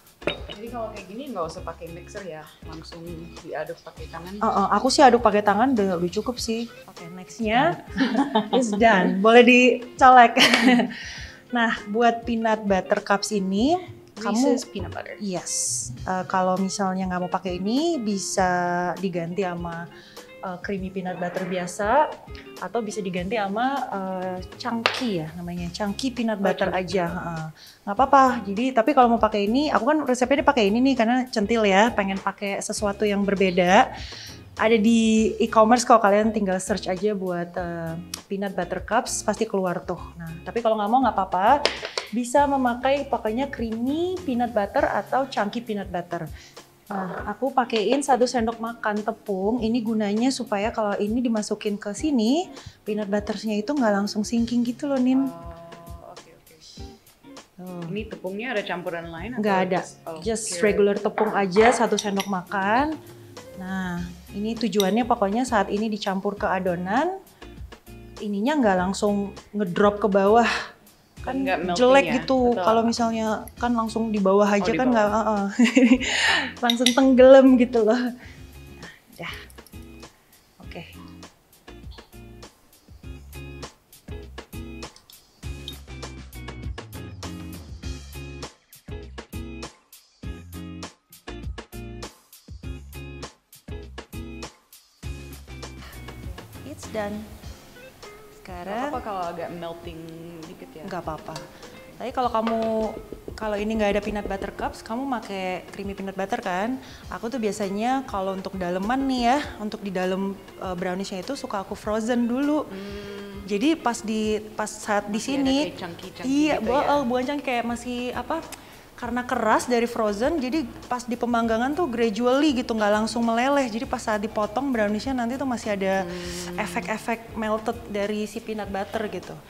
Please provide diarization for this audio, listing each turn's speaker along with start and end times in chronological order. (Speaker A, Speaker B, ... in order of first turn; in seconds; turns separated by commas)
Speaker A: 0.5-4.5, Speaker B: 4.4-14.6, Speaker A: 8.0-9.2, Speaker A: 14.2-15.2, Speaker B: 15.2-19.8, Speaker B: 20.4-22.0, Speaker B: 22.6-33.8, Speaker A: 26.4-27.1, Speaker B: 34.6-41.6, Speaker B: 42.1-46.3, Speaker B: 46.9-55.3, Speaker A: 55.1-56.8, Speaker B: 57.6-58.0, Speaker A: 57.9-60.9, Speaker B: 59.4-62.9, Speaker B: 63.6-67.1, Speaker B: 68.2-70.5, Speaker B: 71.2-78.0, Speaker A: 71.2-72.9, Speaker A: 74.6-75.1, Speaker B: 78.7-79.3, Speaker B: 80.6-80.9, Speaker B: 96.5-97.3, Speaker B: 98.4-99.0, Speaker A: 98.7-101.5, Speaker B: 100.8-101.4, Speaker B: 102.0-112.7, Speaker A: 112.7-113.5, Speaker B: 113.5-115.7, Speaker A: 115.1-117.1, Speaker B: 116.2-118.4, Speaker B: 119.0-129.4, Speaker A: 126.0-126.9